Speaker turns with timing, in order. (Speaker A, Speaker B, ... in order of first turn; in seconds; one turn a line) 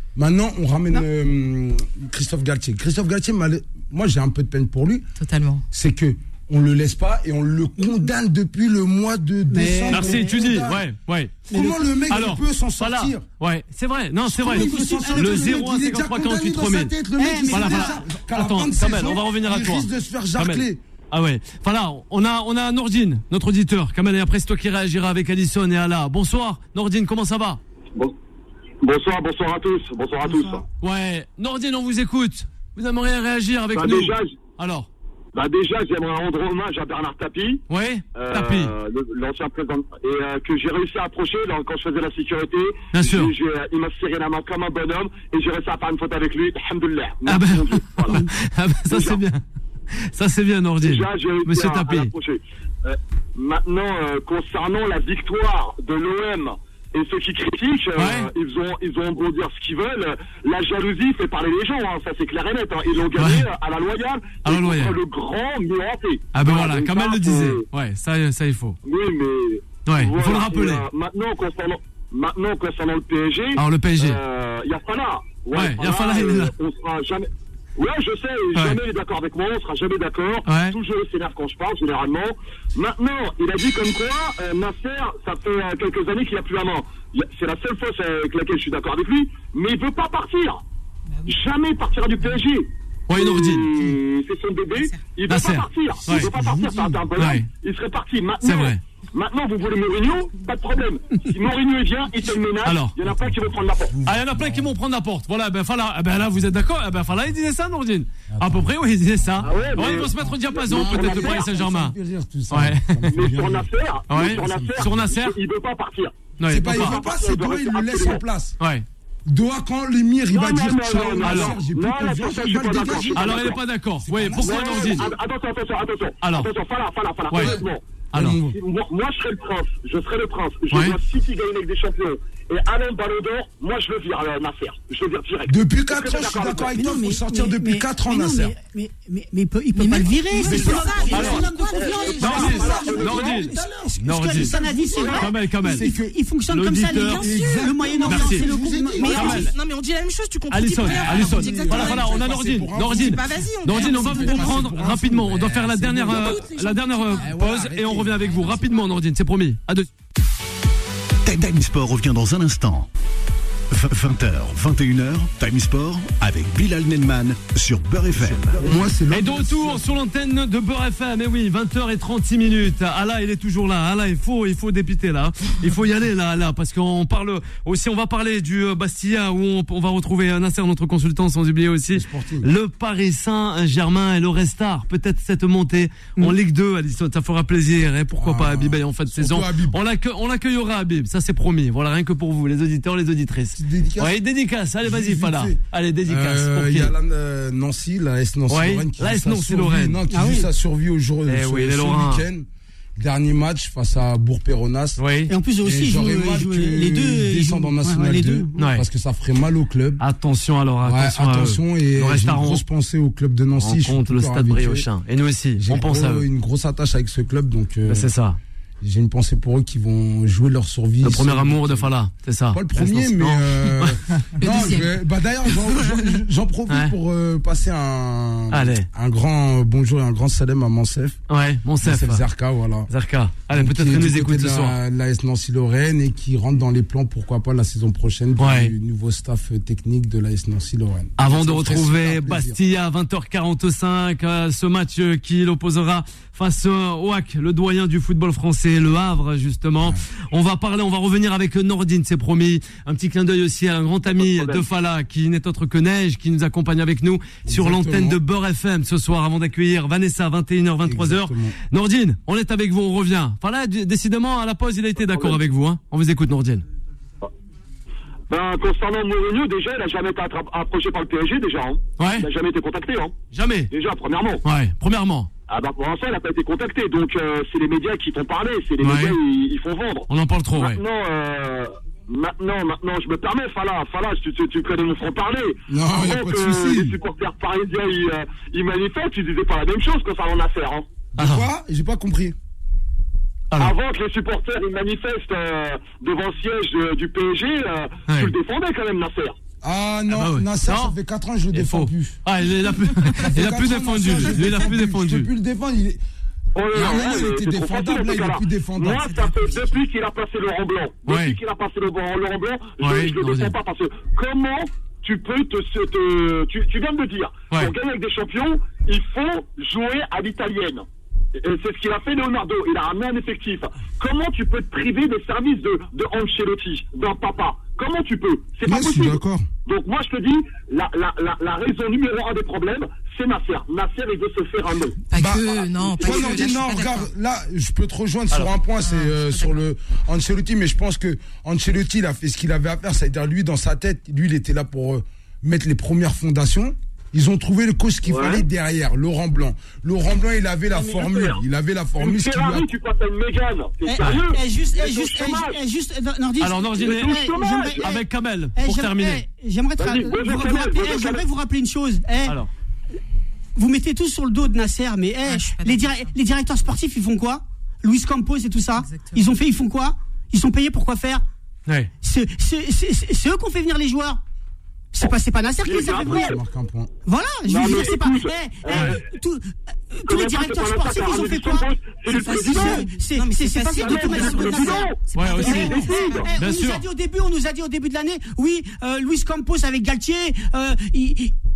Speaker A: 0.1-5.1
Speaker B: 5.2-5.6
Speaker A: 5.7-10.8
Speaker C: 9.5-10.3
Speaker D: 9.9-11.4
Speaker A: 11.5-13.2
Speaker C: 11.5-11.8
Speaker D: 12.1-16.9
Speaker A: 14.2-20.8
Speaker C: 14.4-15.6
Speaker C: 17.2-17.9
Speaker D: 17.5-27.6
Speaker E: 28.8-30.6
Speaker D: 30.8-34.9
Speaker E: 33.7-34.4
Speaker E: 35.3-37.6
Speaker D: 37.7-38.7
Speaker E: 38.1-48.3
Speaker D: 42.9-43.3
Speaker D: 47.2-52.1
Speaker E: 48.9-49.2
Speaker E: 50.8-67.6
Speaker D: 58.0-58.3
Speaker D: 63.1-63.5
Speaker D: 64.4-65.0
Speaker D: 66.3-68.8
Speaker E: 68.8-90.6
Speaker D: 69.9-70.8
Speaker D: 73.6-74.2
Speaker D: 75.5-76.5
Speaker D: 80.5-80.8
Speaker B: 91.1-91.3
Speaker E: 91.2-104.0
Speaker D: 93.1-93.7
Speaker B: 94.7-95.0
Speaker D: 95.3-96.3
Speaker A: 96.1-97.0
Speaker D: 97.2-97.5
Speaker D: 98.4-98.8
Speaker D: 102.6-103.0
Speaker A: 103.0-104.8
Speaker D: 104.0-111.9
Speaker A: 108.3-108.7
Speaker A: 109.4-115.0
Speaker E: 109.4-111.4
Speaker D: 112.5-113.2
Speaker E: 113.1-118.2
Speaker D: 114.1-115.3
Speaker D: 116.4-117.0
Speaker A: 116.5-118.5
Speaker D: 118.6-118.8
Speaker A: 119.3-125.2
Speaker E: 120.3-123.6
Speaker D: 121.2-121.6
Speaker D: 122.7-125.1
Speaker E: 124.4-127.8
Speaker D: 126.2-126.5
Speaker D: 127.3-127.6
Speaker A: 127.3-128.6
Speaker D: 128.1-128.4
Speaker E: 128.5-136.8
Speaker D: 130.7-131.0
Speaker A: 135.5-138.5
Speaker C: 136.7-149.5
Speaker B: 139.7-143.0
Speaker A: 140.4-141.5
Speaker E: 140.6-143.4
Speaker A: 142.0-146.2
Speaker D: 142.2-143.5
Speaker D: 144.0-144.5
Speaker E: 144.9-145.2
Speaker D: 145.2-145.9
Speaker D: 146.5-147.3
Speaker B: 146.9-148.2
Speaker A: 147.1-149.5
Speaker D: 148.1-148.4
Speaker B: 148.9-154.7
Speaker D: 149.0-149.5
Speaker D: 150.5-159.9
Speaker A: 150.8-156.4
Speaker B: 156.0-157.3
Speaker A: 157.1-158.5
Speaker F: 161.2-162.9
Speaker F: 163.7-168.8
Speaker A: 168.3-169.9
Speaker D: 169.1-196.9
Speaker A: 181.9-182.5
Speaker A: 188.2-189.8
Speaker A: 193.6-194.2
Speaker A: 194.8-205.0
Speaker D: 198.5-200.0
Speaker C: 200.1-200.5
Speaker D: 201.3-202.2
Speaker D: 205.0-205.3
Speaker C: 205.3-208.6
Speaker A: 205.6-210.0
Speaker D: 208.6-208.8
Speaker D: 210.0-212.6
Speaker A: 210.8-214.9
Speaker D: 213.6-216.2
Speaker A: 215.6-218.1
Speaker D: 217.9-218.4
Speaker A: 218.8-221.9
Speaker D: 221.0-224.0
Speaker A: 222.5-231.2
Speaker B: 224.4-225.0
Speaker B: 225.6-225.9
Speaker D: 228.5-228.9
Speaker D: 231.3-232.2
Speaker A: 231.8-232.9
Speaker D: 232.9-234.8
Speaker A: 233.5-242.6
Speaker D: 238.4-238.7
Speaker D: 241.2-266.6
Speaker E: 254.2-254.6
Speaker A: 257.4-258.2
Speaker A: 260.8-261.6
Speaker E: 265.1-265.4
Speaker E: 268.3-273.2
Speaker D: 272.0-272.3
Speaker D: 273.3-273.7
Speaker E: 273.7-274.4
Speaker D: 274.4-275.3
Speaker E: 275.5-290.9
Speaker D: 278.8-279.2
Speaker D: 280.1-280.8
Speaker A: 285.7-286.9
Speaker A: 291.1-292.4
Speaker D: 291.2-291.5
Speaker E: 293.6-299.4
Speaker D: 298.1-298.3
Speaker A: 299.6-302.2
Speaker D: 300.1-300.9
Speaker D: 301.5-305.3
Speaker A: 303.0-306.0
Speaker E: 306.5-320.8
Speaker A: 306.7-309.3
Speaker D: 311.1-311.4
Speaker D: 312.8-313.5
Speaker E: 321.4-335.0
Speaker A: 328.6-329.4
Speaker B: 335.1-337.1
Speaker A: 335.1-352.7
Speaker B: 338.8-339.6
Speaker E: 348.1-348.4
Speaker E: 350.7-351.4
Speaker E: 352.0-355.6
Speaker C: 353.8-357.9
Speaker D: 356.4-357.2
Speaker E: 356.8-358.0
Speaker D: 357.8-359.2
Speaker C: 358.6-362.4
Speaker E: 359.8-361.2
Speaker C: 363.6-371.2
Speaker B: 365.2-366.1
Speaker B: 368.8-369.2
Speaker C: 372.0-374.2
Speaker C: 374.9-376.3
Speaker E: 375.0-376.3
Speaker A: 375.9-376.9
Speaker C: 377.1-391.3
Speaker E: 377.4-379.0
Speaker D: 378.7-379.0
Speaker E: 380.1-382.8
Speaker B: 382.1-386.3
Speaker E: 383.8-386.3
Speaker D: 385.1-385.8
Speaker D: 386.4-386.8